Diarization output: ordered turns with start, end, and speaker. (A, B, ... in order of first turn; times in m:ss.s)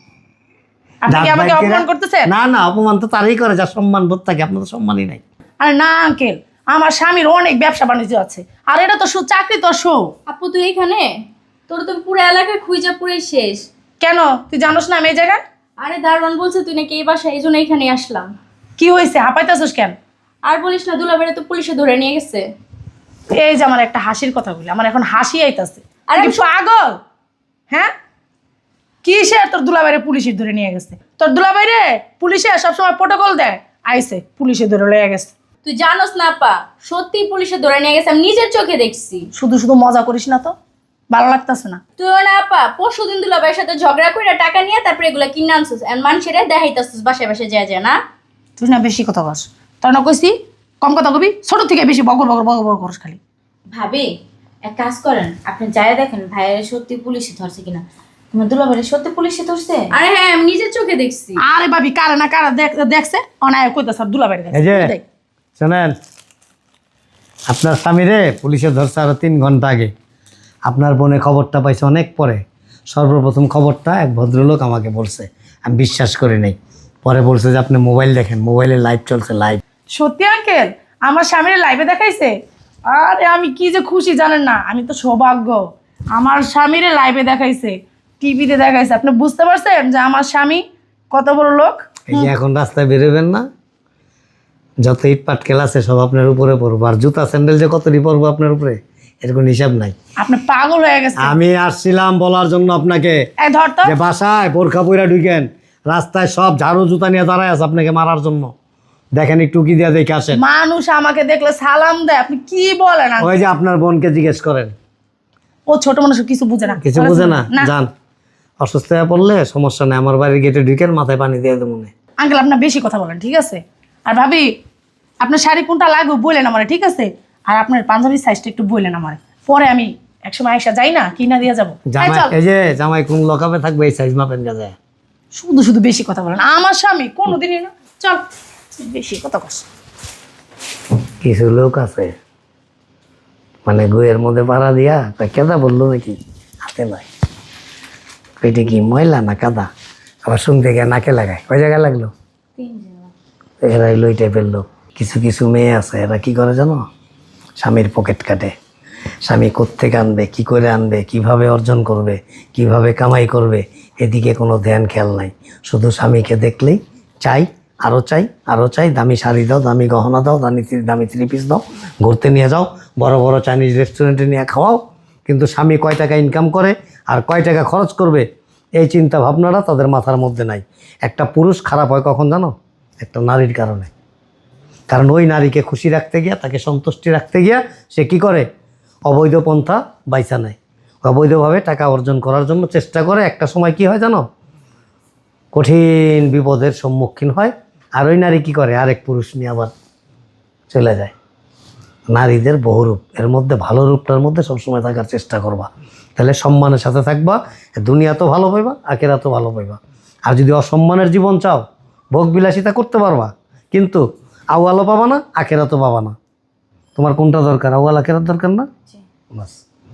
0:01.0-0:02.3 A
0:01.1-0:05.2 B
0:05.6-0:10.1 A
0:10.3-0:11.1 C
0:11.7-0:13.6 C
0:14.0-0:15.4 A
0:15.8-0:18.3 C
0:18.8-0:19.9 A
0:20.4-0:22.5 C
0:23.4-0:27.0 A
0:26.1-0:26.4 C
0:29.0-0:35.3 A
0:35.6-0:39.3 C
0:39.3-0:40.5 A
0:41.1-0:41.8 A
0:42.0-0:48.0 C
0:48.6-0:53.2 A
0:53.7-0:54.1 D
0:54.6-0:59.9 D
0:59.9-1:01.4 C
1:01.4-1:05.0 A
1:04.5-1:04.9 B
1:05.6-1:05.9 B
1:07.5-1:09.9 B
1:10.7-1:19.6 B
1:20.0-1:22.3 A
1:22.9-1:25.6 A
1:26.1-1:32.3 A
1:32.1-1:33.4 B
1:34.8-1:39.9 B
1:40.2-1:41.4 A
1:41.2-1:43.2 B
1:43.4-1:43.9 A
1:43.8-1:48.5 B
1:49.2-1:50.4 B
1:50.3-1:53.3 A
1:53.2-1:54.7 B
1:55.7-1:57.7 A
1:56.8-1:57.9 B
1:58.6-2:01.9 B
2:02.2-2:04.5 A
2:05.2-2:12.3 A
2:11.9-2:14.8 B
2:15.3-2:19.6 A
2:21.2-2:22.2 B
2:23.6-2:27.0 B
2:28.4-2:29.7 B
2:30.2-2:32.1 B
2:32.6-2:33.1 D
2:33.6-2:36.8 B
2:37.6-2:38.5 B
2:39.2-2:58.2 B
2:58.8-3:03.9 B
3:04.9-3:08.5 B
3:09.1-3:14.2 B
3:15.5-3:19.7 B
3:20.7-3:21.1 B
3:22.1-3:36.2 B
3:37.0-3:38.7 B
3:39.3-3:39.6 B